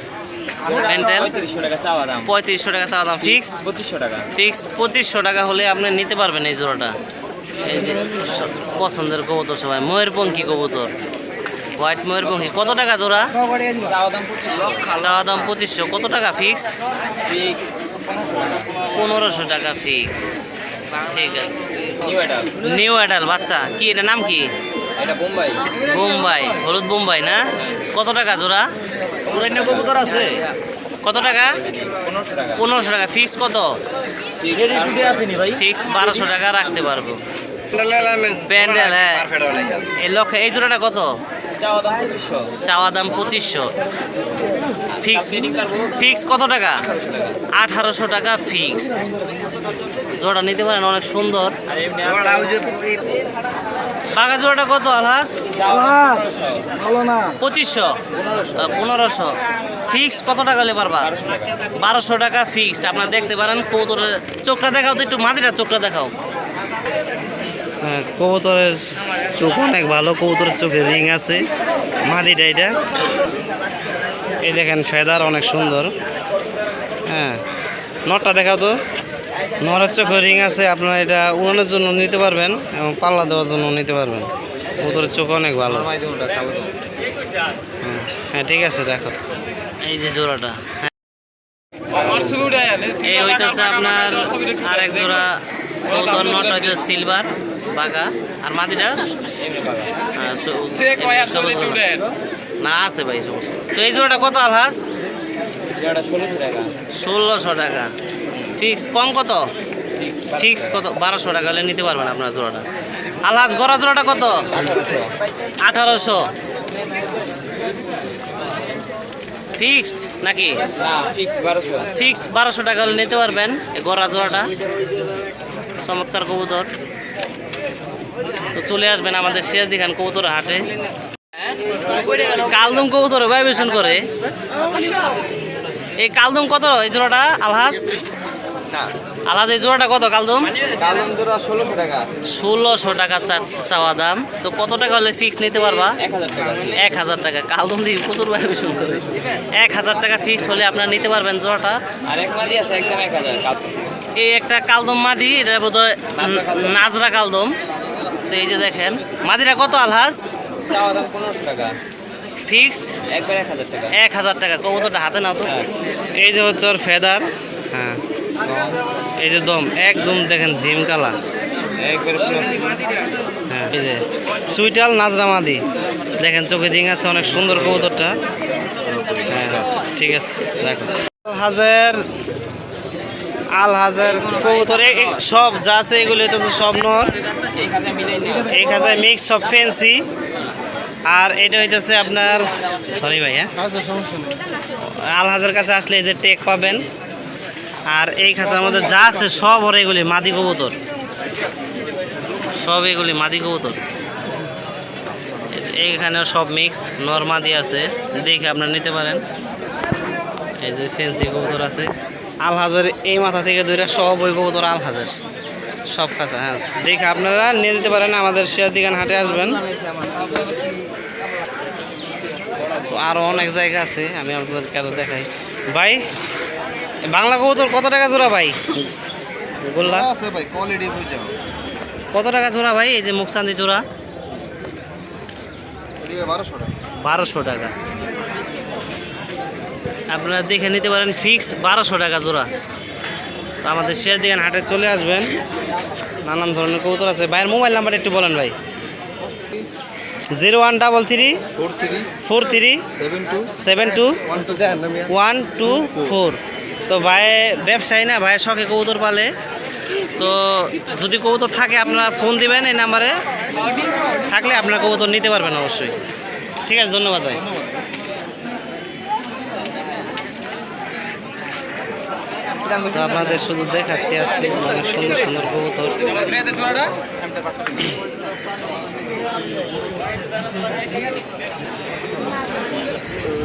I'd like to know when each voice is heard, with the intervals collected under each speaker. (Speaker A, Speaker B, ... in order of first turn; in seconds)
Speaker A: 0.6-2.3, 3.2-4.3, 13.7-14.9, 17.2-18.7, 22.0-22.6, 25.0-25.7, 31.6-32.6, 34.4-35.6, 41.6-42.5, 45.0-46.0, 46.9-47.4, 51.7-52.9, 55.5-56.9, 58.1-58.7, 61.0-61.5, 85.6-86.7, 91.9-93.0, 99.4-99.9, 101.3-102.0, 105.8-106.7, 110.0-110.8, 120.8-121.9, 140.6-142.1, 145.7-146.9, 152.1-153.6, 156.1-156.8, 160.7-161.8, 163.1-164.0, 171.8-172.8, 184.3-185.1, 187.5-188.5, 219.8-220.8
Speaker B: 0.7-1.3, 2.2-3.6, 4.3-6.9, 7.6-10.9, 11.8-13.3, 15.0-16.7, 18.9-20.3, 21.1-21.6, 22.6-24.5, 25.8-28.7, 29.3-30.4, 31.0-31.6, 32.5-33.7, 35.5-37.2, 37.8-39.3, 39.8-41.1, 42.6-43.7, 45.0-45.4, 45.9-46.8, 47.5-49.0, 50.1-51.5, 54.1-55.4, 57.3-58.0, 58.5-59.4, 59.9-61.1, 61.8-66.1, 67.8-68.8, 69.3-71.5, 72.1-72.8, 74.4-75.9, 77.1-77.4, 78.1-78.8, 79.6-84.3, 84.8-85.9, 87.8-89.1, 89.8-90.8, 93.0-99.1, 100.1-102.0, 102.6-104.8, 107.0-107.9, 108.6-109.5, 110.4-112.6, 113.2-114.8, 115.6-116.3, 119.5-120.6, 121.9-124.5, 125.8-126.7, 128.5-130.7, 132.3-134.1, 136.0-137.9, 139.3-140.6, 142.3-146.0, 146.7-151.8, 154.2-157.6, 158.3-160.3, 162.5-162.9, 163.9-165.5, 166.2-171.2, 173.5-175.6, 176.2-178.2, 179.2-182.0, 183.5-187.1, 188.5-190.1, 191.1-193.5, 194.9-196.8, 197.9-200.8, 202.6-203.8, 205.5-209.2, 210.6-215.2, 215.9-219.6, 222.8-226.0, 227.1-228.7, 229.7-230.1, 232.1-233.8, 237.0-237.7, 240.1-242.5, 243.6-245.3, 246.2-248.5, 250.3-251.4, 252.2-252.8, 253.6-254.2, 255.1-259.3, 260.2-263.1, 264.3-265.9, 266.7-267.4, 272.9-276.9
Speaker C: 37.7-39.9, 52.4-53.0, 114.8-115.1, 229.9-231.3, 236.0-236.7, 251.6-252.1, 253.0-253.5, 254.4-254.8